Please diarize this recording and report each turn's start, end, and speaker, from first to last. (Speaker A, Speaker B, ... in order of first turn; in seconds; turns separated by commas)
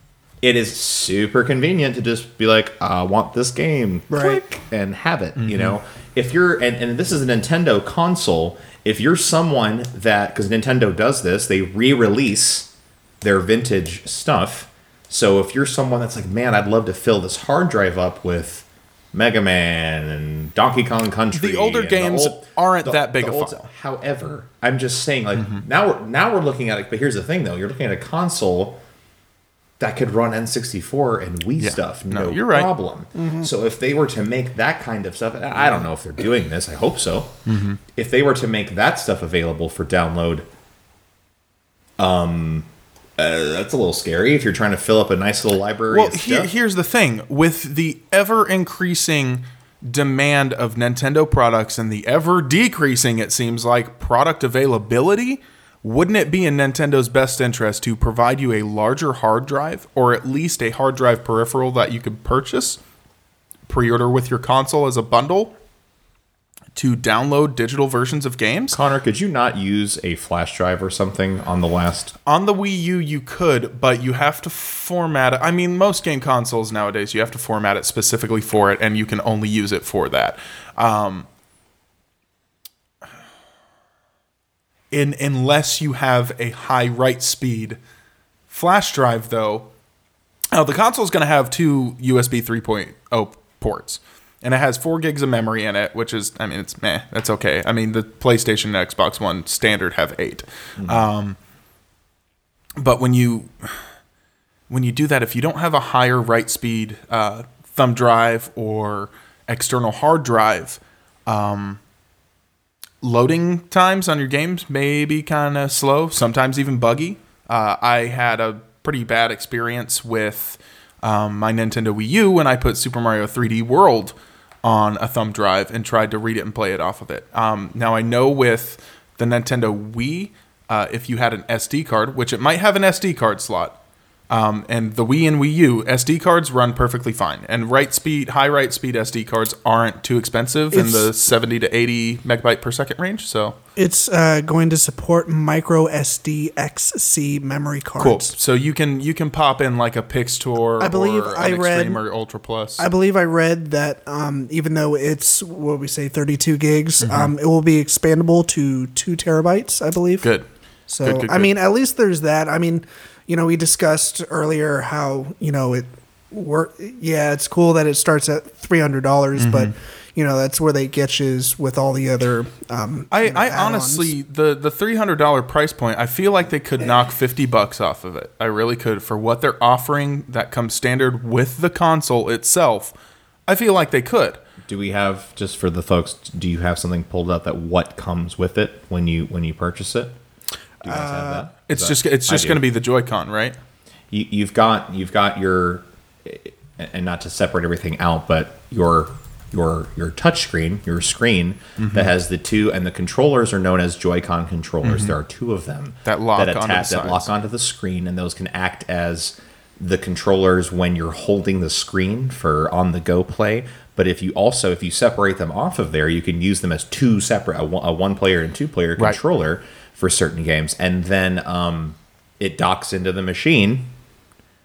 Speaker A: 0.4-28.8, Speaker B: 4.1-4.4, Speaker C: 5.4-5.8, Speaker C: 21.3-23.6, Speaker C: 25.4-25.6, Speaker A: 29.8-37.4, Speaker C: 31.6-32.7, Speaker B: 33.2-33.5, Speaker C: 37.5-37.8, Speaker A: 37.9-40.5, Speaker A: 42.0-46.5, Speaker C: 45.9-62.8, Speaker C: 63.7-65.6, Speaker C: 66.8-68.8, Speaker A: 68.7-72.2, Speaker C: 72.2-81.3, Speaker C: 84.9-87.8, Speaker C: 88.5-89.7, Speaker C: 90.5-101.4, Speaker C: 102.8-103.8, Speaker C: 104.7-111.8, Speaker C: 113.0-133.8, Speaker C: 134.3-143.6, Speaker B: 140.7-141.1, Speaker B: 143.8-148.3, Speaker C: 148.0-152.8, Speaker B: 150.8-152.0, Speaker B: 152.8-160.3, Speaker C: 157.0-157.3, Speaker B: 160.9-174.1, Speaker C: 161.0-161.5, Speaker C: 169.4-169.7, Speaker C: 173.1-182.9, Speaker C: 183.5-184.4, Speaker A: 184.6-190.2, Speaker A: 190.8-192.6, Speaker B: 190.8-191.5, Speaker C: 191.7-193.6, Speaker A: 194.1-223.9, Speaker C: 201.8-202.1, Speaker C: 204.8-205.1, Speaker C: 206.1-207.3